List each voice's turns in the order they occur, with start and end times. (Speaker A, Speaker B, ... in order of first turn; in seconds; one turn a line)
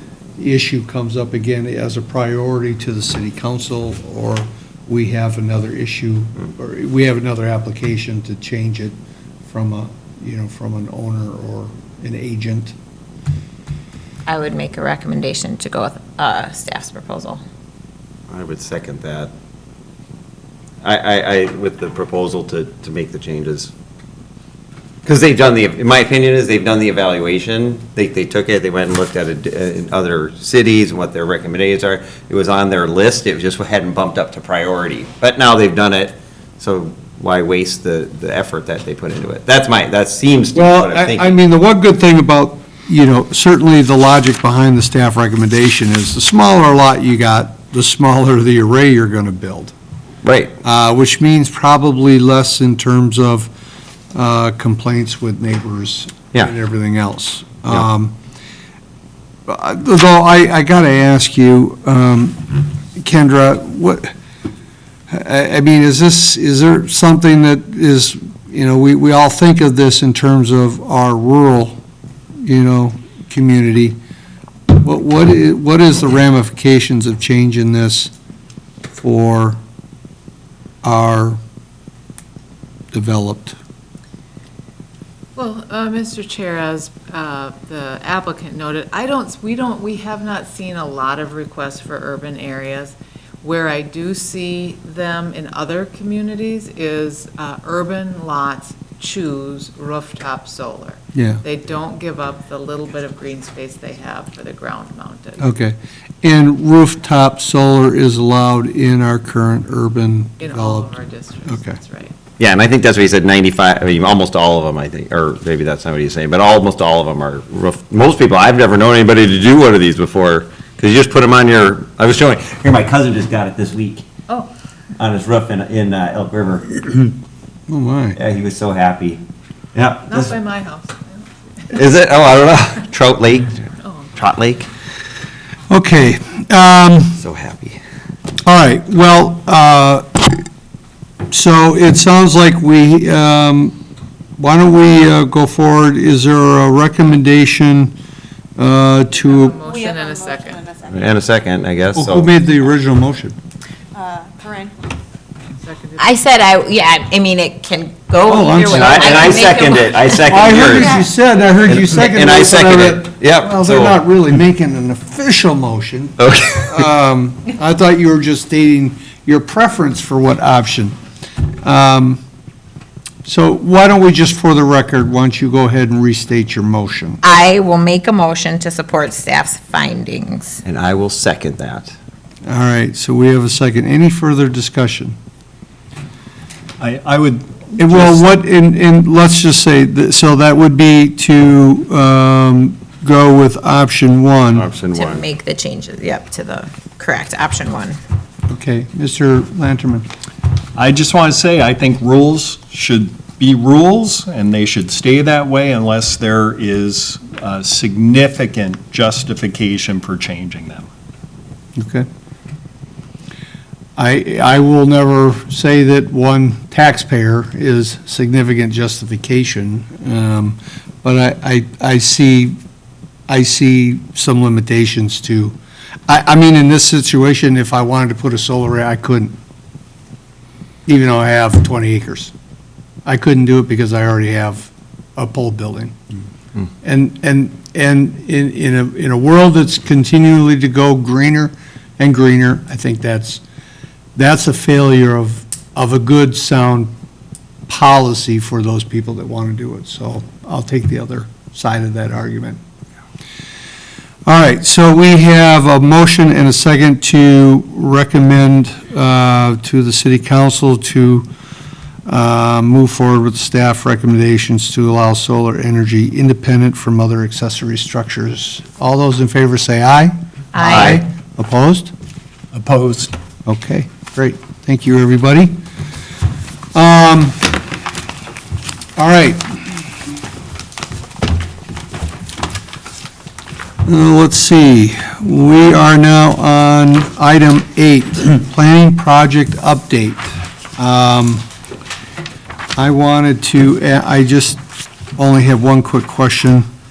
Speaker A: 0.4-8.9
Speaker A: 9.5-12.7
Speaker B: 14.3-17.4
Speaker C: 18.3-19.3
Speaker C: 20.8-23.7
Speaker C: 25.0-41.4
Speaker A: 40.5-49.7
Speaker C: 50.2-50.5
Speaker A: 50.6-53.5
Speaker A: 54.1-58.1
Speaker A: 59.5-64.1
Speaker A: 65.1-71.8
Speaker A: 72.4-74.0
Speaker A: 74.7-78.1
Speaker A: 79.0-79.6
Speaker A: 80.8-81.4
Speaker A: 82.9-83.6
Speaker D: 85.3-105.5
Speaker A: 101.1-101.4
Speaker A: 105.4-110.9
Speaker D: 110.4-112.1
Speaker A: 111.5-111.8
Speaker C: 112.4-124.0
Speaker C: 125.0-127.1
Speaker A: 127.7-128.2
Speaker C: 128.2-129.2
Speaker C: 129.7-130.3
Speaker D: 130.1-131.3
Speaker C: 131.7-134.7
Speaker D: 133.8-134.1
Speaker A: 135.7-137.2
Speaker C: 137.2-137.8
Speaker A: 138.4-140.4
Speaker A: 141.3-143.7
Speaker A: 144.4-147.9
Speaker A: 148.6-149.5
Speaker D: 149.2-150.7
Speaker E: 149.5-151.0
Speaker C: 150.9-152.3
Speaker A: 151.9-153.3
Speaker E: 153.9-154.7
Speaker D: 155.6-156.1
Speaker B: 156.0-160.6
Speaker A: 158.3-159.5
Speaker C: 158.7-161.1
Speaker A: 160.2-170.9
Speaker C: 161.6-164.0
Speaker C: 166.2-166.8
Speaker A: 171.6-172.2
Speaker A: 173.2-177.2
Speaker B: 177.2-180.6
Speaker C: 180.6-181.9
Speaker A: 182.4-185.2
Speaker F: 186.8-188.3
Speaker A: 187.8-194.7
Speaker C: 194.6-195.2
Speaker B: 194.9-198.0
Speaker A: 198.5-200.1
Speaker F: 200.8-210.8
Speaker A: 211.8-212.1
Speaker A: 214.0-222.6
Speaker A: 223.3-225.6
Speaker A: 226.1-229.3
Speaker A: 230.8-232.3
Speaker A: 233.1-235.9
Speaker A: 236.8-243.4
Speaker A: 244.2-246.9
Speaker A: 247.7-252.6
Speaker A: 254.2-261.3
Speaker A: 262.1-271.9
Speaker B: 270.5-271.0
Speaker C: 270.7-271.0
Speaker F: 272.5-273.1
Speaker A: 273.4-275.6
Speaker A: 276.7-277.5
Speaker A: 279.0-279.6
Speaker A: 283.8-291.4
Speaker A: 292.8-294.6
Speaker A: 295.2-296.6